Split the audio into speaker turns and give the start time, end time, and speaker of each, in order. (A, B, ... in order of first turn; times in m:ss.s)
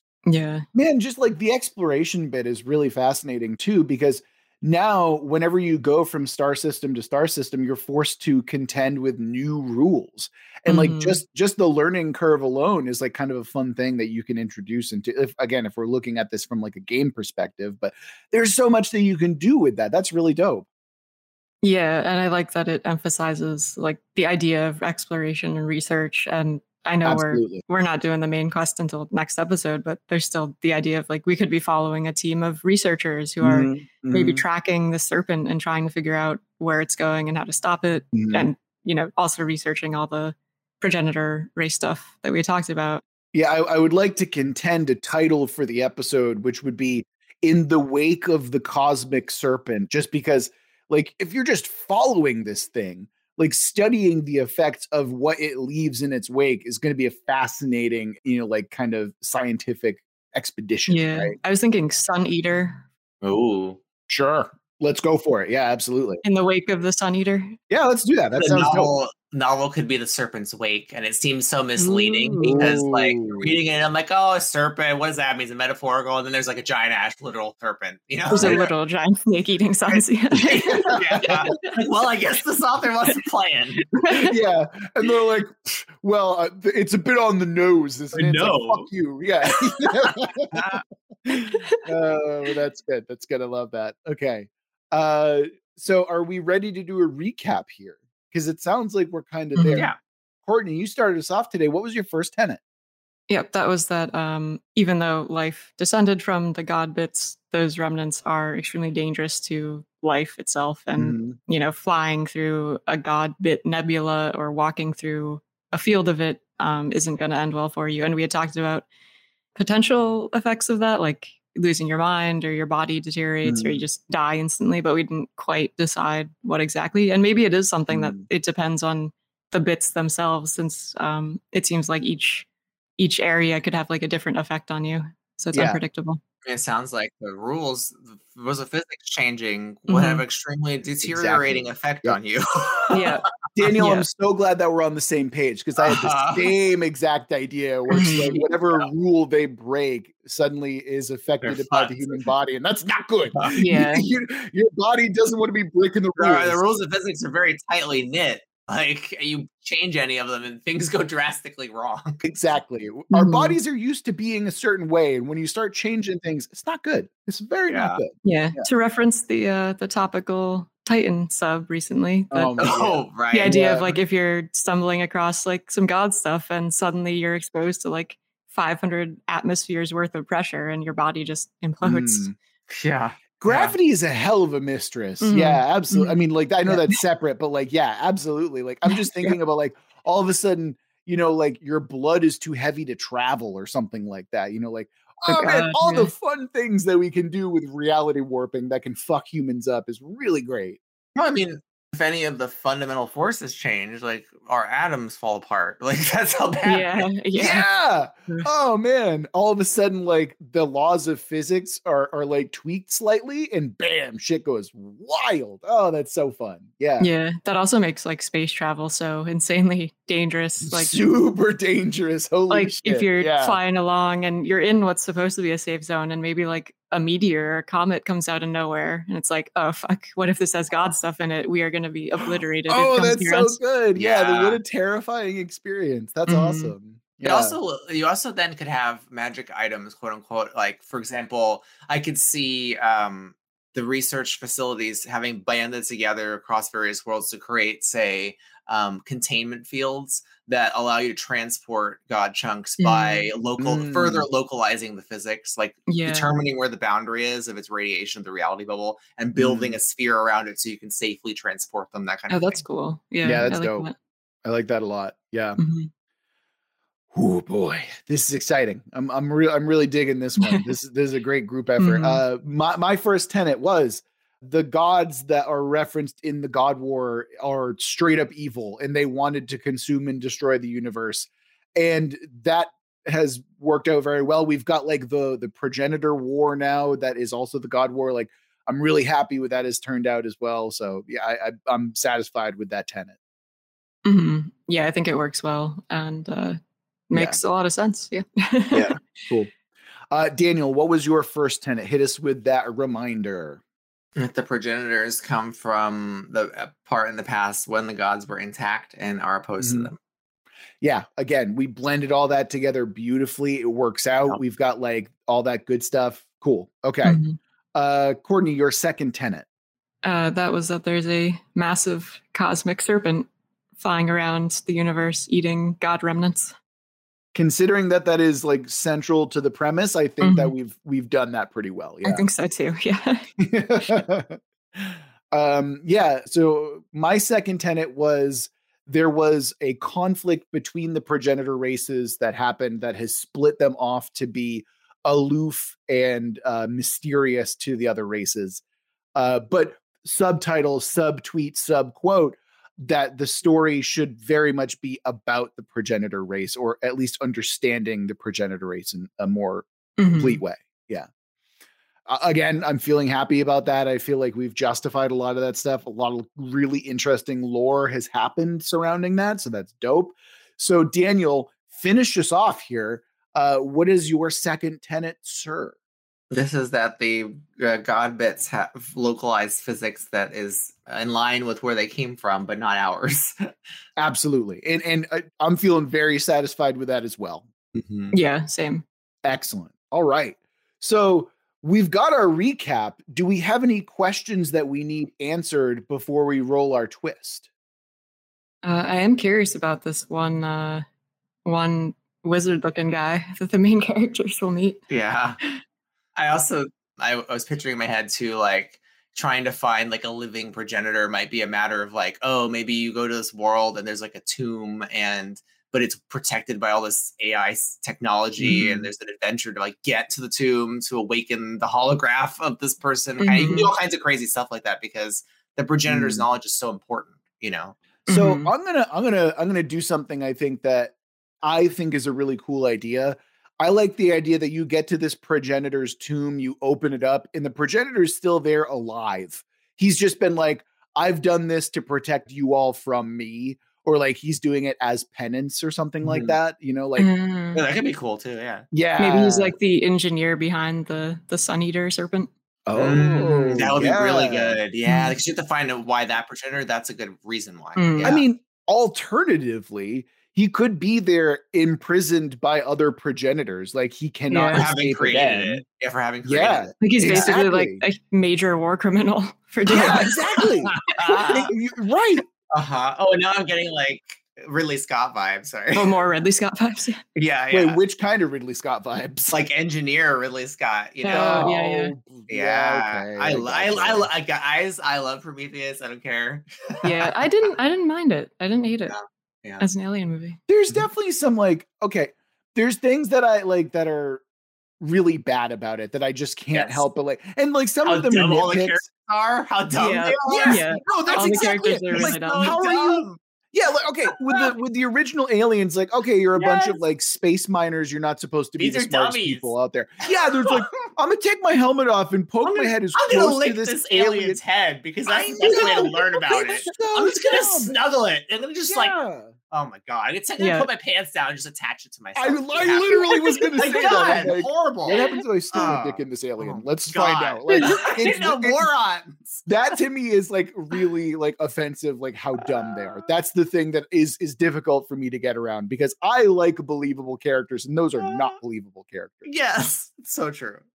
0:00.3-0:00.7 A
0:00.7-0:20.7 B
0:10.7-0:11.2 A
0:21.6-0:43.0 A
0:27.0-0:27.6 B
0:33.4-0:34.4 B
0:38.1-0:38.5 B
0:43.3-1:01.4 B
1:00.9-1:02.8 A
1:03.2-1:03.8 C
1:04.1-1:06.2 B
1:06.2-1:07.6 A
1:07.7-1:08.9 B
1:08.4-1:18.7 C
1:11.8-1:12.7 A
1:12.4-1:13.6 B
1:18.3-1:21.7 A
1:19.9-1:23.9 C
1:20.7-1:21.4 B
1:24.0-1:24.3 A
1:24.1-1:39.9 B
1:28.1-1:28.9 C
1:29.5-1:30.8 C
1:39.6-1:39.9 A
1:40.5-1:42.6 B
1:43.3-1:58.9 A
1:51.0-1:51.4 B
1:59.6-2:12.5 A
2:03.4-2:03.8 B
2:07.9-2:08.3 B
2:13.0-2:16.2 A
2:15.5-2:15.8 B
2:16.5-2:23.1 C
2:19.9-2:20.2 A
2:21.0-2:22.2 B
2:22.9-2:24.1 A
2:23.6-2:36.6 B
2:25.8-2:26.5 C
2:27.9-2:28.4 A
2:27.9-2:28.9 C
2:31.4-2:32.2 C
2:33.6-2:34.1 A
2:36.2-2:42.2 C
2:42.2-2:48.7 B
2:43.1-2:43.6 A
2:47.7-2:48.0 C
2:48.2-2:52.6 A
2:52.3-2:54.0 B
2:52.6-2:53.6 C
2:53.3-3:02.3 A
3:01.8-3:02.4 B
3:02.7-3:03.8 C
3:03.4-3:20.8 B
3:05.2-3:07.0 A
3:08.8-3:09.3 A
3:15.3-3:16.1 A
3:21.2-3:27.1 C
3:26.6-3:27.7 A
3:27.4-3:37.1 B
3:37.0-3:41.0 A
3:40.6-3:43.6 B
3:42.5-3:53.6 A
3:52.7-3:57.6 B
3:54.0-3:54.6 C
3:56.3-3:56.7 A
3:57.2-4:22.6 C
4:12.8-4:13.3 A
4:13.6-4:14.3 B
4:15.9-4:16.3 A
4:19.4-4:19.8 B
4:22.3-4:23.9 A
4:23.2-4:23.9 B
4:24.4-4:25.6 B
4:25.6-4:25.9 A
4:27.1-4:53.2 B
4:30.4-4:30.7 A
4:31.8-4:32.2 A
4:54.0-4:56.6 A
4:57.1-4:59.2 A
4:57.1-4:57.4 B
4:58.7-4:59.5 B
5:00.1-5:03.6 B
5:04.2-5:10.0 C
5:09.6-5:09.9 B
5:10.8-5:17.2 B
5:17.0-5:17.4 A
5:17.7-5:19.5 B
5:20.0-5:26.6 A
5:27.3-5:32.2 B
5:30.2-5:30.5 A
5:32.0-5:33.9 A
5:33.4-5:48.6 B
5:49.2-6:01.1 B
6:00.0-6:00.4 A
6:02.1-6:15.7 B
6:16.3-6:23.5 C
6:24.0-6:27.5 B
6:27.8-6:28.1 C
6:28.1-6:28.8 A
6:29.2-6:37.5 B
6:38.6-6:40.8 A
6:41.4-6:44.8 A
6:44.9-6:45.4 C
6:46.2-7:07.8 C
6:58.4-6:58.9 B
7:03.2-7:03.7 A
7:03.4-7:03.7 B
7:05.9-7:06.2 B
7:08.1-7:27.1 B
7:08.1-7:08.5 A
7:26.0-7:26.4 C
7:27.0-7:27.6 A
7:27.6-7:28.7 C
7:28.7-7:29.6 B
7:29.0-7:32.3 A
7:32.7-7:34.6 B
7:32.8-7:38.2 C
7:34.8-7:35.2 A
7:37.8-7:38.2 A
7:38.0-7:45.6 B
7:44.3-7:44.6 A
7:44.5-7:47.3 C
7:46.2-7:47.8 B
7:46.8-7:50.4 A
7:49.7-7:52.2 B
7:49.9-7:51.5 C
7:52.5-7:56.0 C
7:55.8-7:57.0 A
7:57.2-7:57.8 C
7:57.5-7:59.4 B
7:59.3-8:01.5 C
8:01.0-8:01.9 A
8:01.1-8:04.1 B
8:02.3-8:07.4 C
8:06.8-8:09.0 A
8:08.9-8:09.7 C
8:09.6-8:10.4 A
8:10.5-8:14.2 B
8:14.8-8:18.8 B
8:16.5-8:16.8 C
8:17.9-8:23.2 C
8:19.8-8:22.6 A
8:20.3-8:34.4 B
8:24.1-8:24.6 C
8:26.4-8:26.8 C
8:28.6-8:29.5 C
8:30.0-8:30.7 C
8:32.4-8:39.0 C
8:35.1-8:37.7 B
8:38.7-8:39.3 B
8:39.5-8:49.8 C
8:40.4-8:40.7 A
8:42.2-8:48.7 B
8:47.5-8:47.8 A
8:49.5-8:59.3 B
8:52.4-8:53.0 C
8:58.0-8:58.3 C
8:59.3-9:00.6 C